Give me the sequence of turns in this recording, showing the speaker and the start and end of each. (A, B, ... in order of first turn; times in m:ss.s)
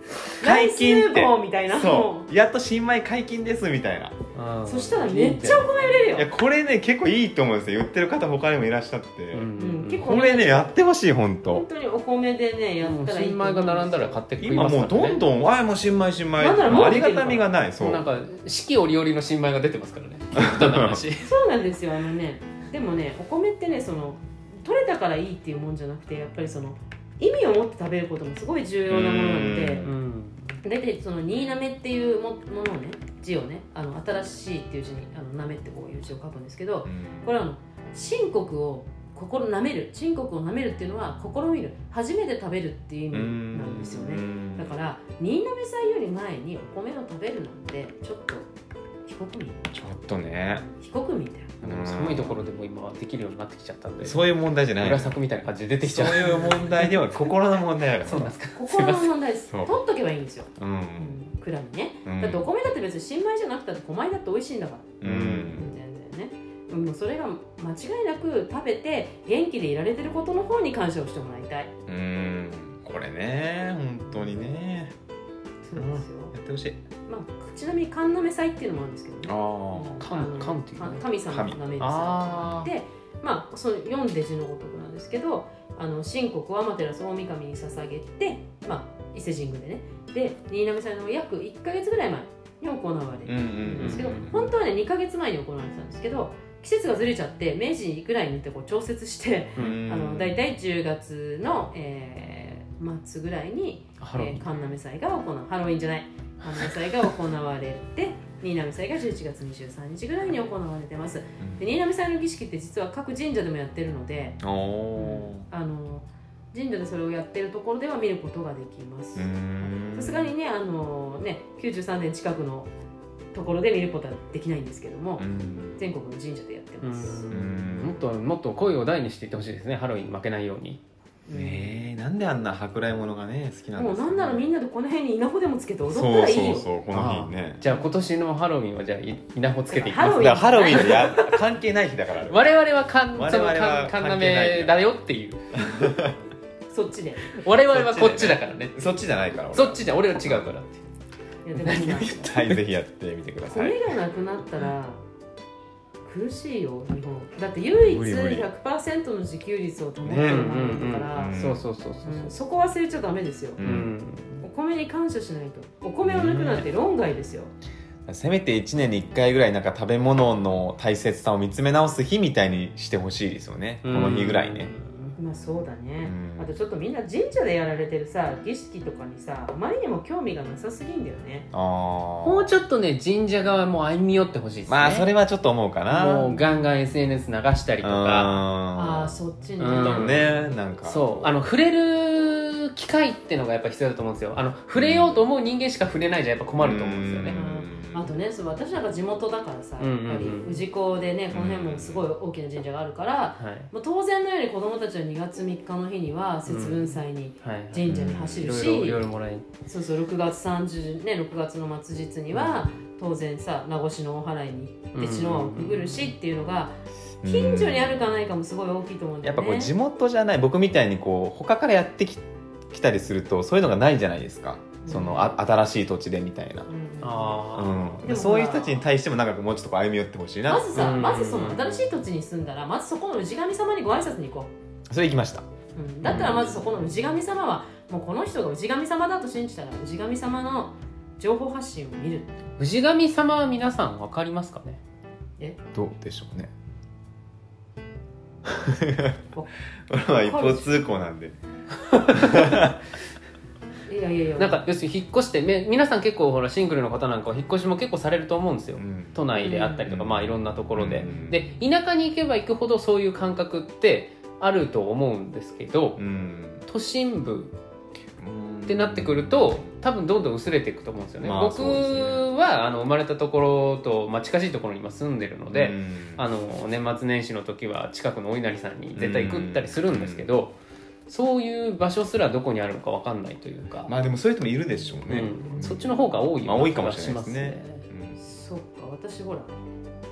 0:00.3-0:04.1 A
0:00.4-0:02.3 B
0:04.3-0:06.2 C
0:04.6-0:06.3 B
0:06.1-0:11.6 A
0:09.3-0:10.0 C
0:09.6-0:10.8 B
0:11.4-0:14.2 B
0:12.8-0:15.2 C
0:14.4-0:18.1 A
0:16.4-0:17.5 B
0:17.8-0:21.3 C
0:20.4-0:21.0 A
0:21.2-0:29.9 B
0:28.9-0:29.9 A
0:29.7-0:30.4 C
0:30.6-0:48.5 B
0:36.8-0:37.3 A
0:43.1-0:44.7 A
0:49.0-0:49.7 B
0:49.7-0:50.6 A
0:50.6-0:51.5 B
0:51.6-0:52.4 A
0:51.6-0:57.3 C
0:54.0-0:55.2 A
0:55.8-0:58.3 A
0:58.0-0:59.1 C
0:58.5-1:04.9 B
1:00.6-1:01.2 A
1:02.0-1:02.4 A
1:05.0-1:05.8 A
1:05.0-1:05.6 C
1:05.5-1:11.7 B
1:11.9-1:14.9 A
1:15.6-1:16.3 B
1:15.7-1:16.8 A
1:17.0-1:54.4 B
1:19.2-1:20.0 A
1:20.0-1:21.0 C
1:21.3-1:21.6 A
1:21.8-1:22.7 C
1:33.2-1:34.3 A
1:33.7-1:34.4 C
1:39.6-1:39.8 C
1:39.6-1:40.4 A
1:44.0-1:44.5 C
1:46.4-1:47.0 C
1:51.4-1:51.6 A
1:54.4-1:55.4 A
1:54.9-2:02.7 B
1:59.1-2:00.3 A
2:03.3-2:05.2 B
2:05.2-2:05.8 A
2:05.8-2:07.3 B
2:06.8-2:10.8 C
2:07.3-2:08.0 A
2:11.2-2:11.7 B
2:11.3-2:14.4 A
2:13.8-2:16.7 B
2:15.9-2:17.6 A
2:16.9-2:21.4 C
2:17.7-2:17.9 B
2:19.7-2:21.1 B
2:20.1-2:22.5 A
2:22.2-2:25.4 C
2:23.1-2:24.9 A
2:25.5-2:26.1 A
2:26.7-2:27.3 B
2:27.3-2:28.9 C
2:27.7-2:30.5 A
2:29.5-2:30.8 C
2:31.4-2:32.3 B
2:31.6-2:32.6 C
2:31.8-2:33.8 A
2:33.4-2:35.0 B
2:36.0-2:41.5 B
2:37.7-2:38.5 A
2:40.0-2:40.5 A
2:40.1-2:42.3 C
2:41.1-2:41.6 A
2:42.0-2:43.6 B
2:43.6-2:43.9 A
2:43.6-2:44.4 C
2:44.4-2:47.5 B
2:46.0-2:46.6 A
2:48.1-2:54.7 A
2:53.8-2:55.2 C
2:55.2-3:01.5 B
2:56.0-2:56.5 A
3:01.5-3:02.5 A
3:02.2-3:05.1 C
3:04.6-3:06.3 A
3:05.8-3:08.4 C
3:07.8-3:09.1 A
3:08.7-3:10.5 B
3:09.6-3:17.4 C
3:09.7-3:11.3 A
3:14.7-3:15.1 A
3:16.6-3:18.1 A
3:17.3-3:29.0 B
3:19.8-3:20.6 C
3:21.3-3:22.0 A
3:23.4-3:23.7 C
3:26.4-3:29.4 C
3:27.8-3:28.5 A
3:29.7-3:39.7 B
3:32.3-3:32.6 C
3:34.9-3:36.1 C
3:37.2-3:38.0 A
3:39.2-3:46.6 A
3:44.8-3:45.4 B
3:46.6-3:48.9 B
3:47.0-3:48.0 C
3:47.5-3:50.9 A
3:50.5-3:54.5 B
3:50.7-3:51.9 C
3:54.9-3:55.4 A
3:55.7-4:02.3 B
3:56.0-3:56.5 A
4:02.6-4:04.8 C
4:05.7-4:06.5 A
4:08.4-4:09.1 A
4:09.9-4:11.4 A
4:10.1-4:10.8 B
4:12.0-4:12.8 A
4:12.1-4:12.4 C
4:13.8-4:14.6 B
4:14.4-4:26.0 C
4:18.8-4:21.5 A
4:19.4-4:19.9 B
4:26.0-4:26.6 A
4:26.7-4:27.5 C
4:28.2-4:29.6 A
4:28.6-4:40.5 C
4:31.2-4:32.3 A
4:35.5-4:36.2 A
4:38.9-4:40.3 A
4:41.1-4:43.9 C
4:43.8-4:48.2 A
4:45.1-4:47.8 C
4:48.2-4:49.6 B